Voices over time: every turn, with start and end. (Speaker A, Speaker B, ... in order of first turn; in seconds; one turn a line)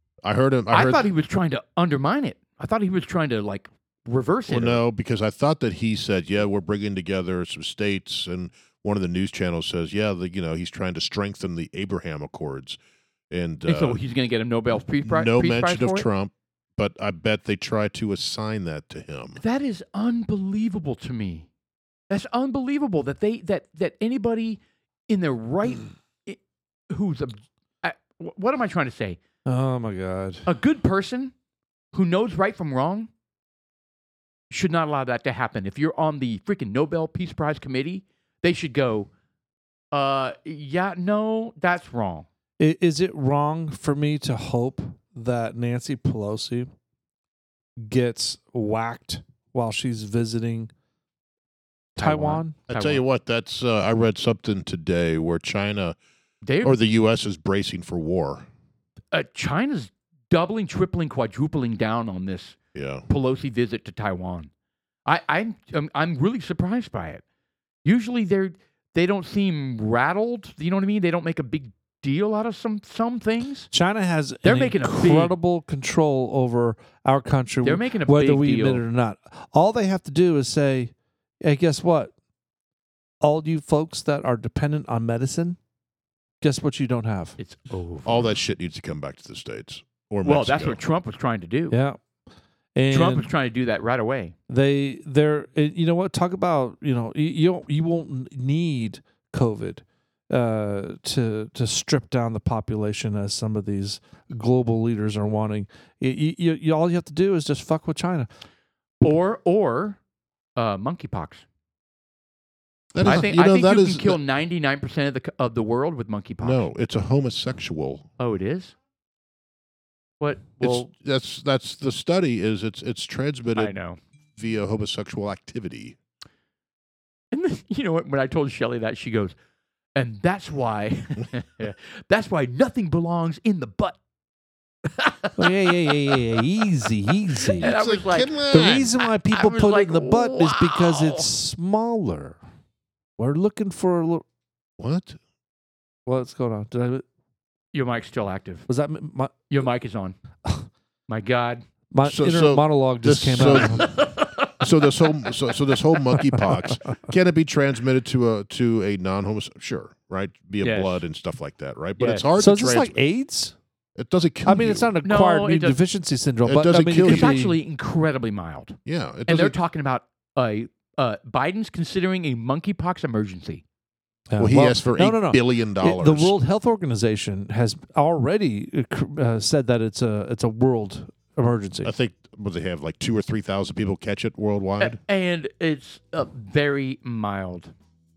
Speaker A: 0.2-1.0
Speaker B: 0.7-4.8
Speaker A: 4.5-12.8
Speaker A: 13.3-14.0
Speaker B: 13.7-16.1
Speaker A: 15.1-19.4
Speaker B: 19.4-21.5
Speaker B: 22.1-26.4
Speaker B: 26.9-29.2
Speaker C: 29.4-30.5
Speaker B: 30.4-31.3
Speaker B: 31.9-33.1
Speaker B: 34.5-39.1
Speaker B: 39.9-42.3
Speaker C: 42.6-46.7
Speaker C: 47.8-50.7
Speaker B: 52.0-53.0
Speaker C: 52.0-52.5
Speaker A: 52.7-56.0
Speaker B: 56.4-56.7
Speaker A: 56.6-58.5
Speaker B: 59.1-62.6
Speaker A: 62.7-63.0
Speaker B: 63.1-64.5
Speaker B: 65.0-67.2
Speaker B: 67.8-73.7
Speaker C: 73.7-82.1
Speaker B: 74.4-75.3
Speaker B: 77.6-78.8
Speaker C: 83.2-85.6
Speaker C: 86.4-87.4
Speaker B: 87.4-88.4
Speaker A: 88.0-90.8
Speaker B: 90.2-91.8
Speaker C: 91.7-92.0
Speaker C: 92.7-93.3
Speaker B: 92.9-94.3
Speaker C: 94.5-108.3
Speaker B: 109.0-110.0
Speaker B: 110.5-111.4
Speaker A: 112.9-114.2
Speaker B: 113.0-116.7
Speaker A: 116.4-118.1
Speaker B: 118.2-118.7
Speaker B: 120.2-120.9
Speaker A: 120.6-123.7
Speaker B: 123.5-124.0
Speaker A: 124.4-126.0
Speaker B: 127.3-129.3
Speaker B: 129.9-134.0
Speaker B: 134.9-136.2
Speaker C: 135.4-137.7
Speaker B: 137.4-141.3
Speaker A: 137.6-138.9
Speaker C: 138.5-142.4
Speaker C: 143.2-144.2
Speaker A: 144.8-145.2
Speaker C: 146.1-147.0
Speaker B: 147.7-148.7
Speaker C: 148.7-149.3
Speaker B: 149.5-150.2
Speaker B: 151.1-151.6
Speaker C: 151.9-153.9
Speaker A: 152.0-153.9
Speaker B: 153.4-154.9
Speaker A: 154.6-163.0
Speaker B: 160.6-161.0
Speaker B: 162.0-162.2
Speaker C: 162.4-163.6
Speaker A: 163.9-164.9
Speaker C: 164.4-167.6
Speaker B: 165.0-165.8
Speaker A: 166.4-167.3
Speaker B: 167.0-173.6
Speaker A: 168.9-169.6
Speaker C: 174.3-181.9
Speaker A: 174.4-176.3
Speaker A: 181.8-185.0
Speaker B: 184.8-187.7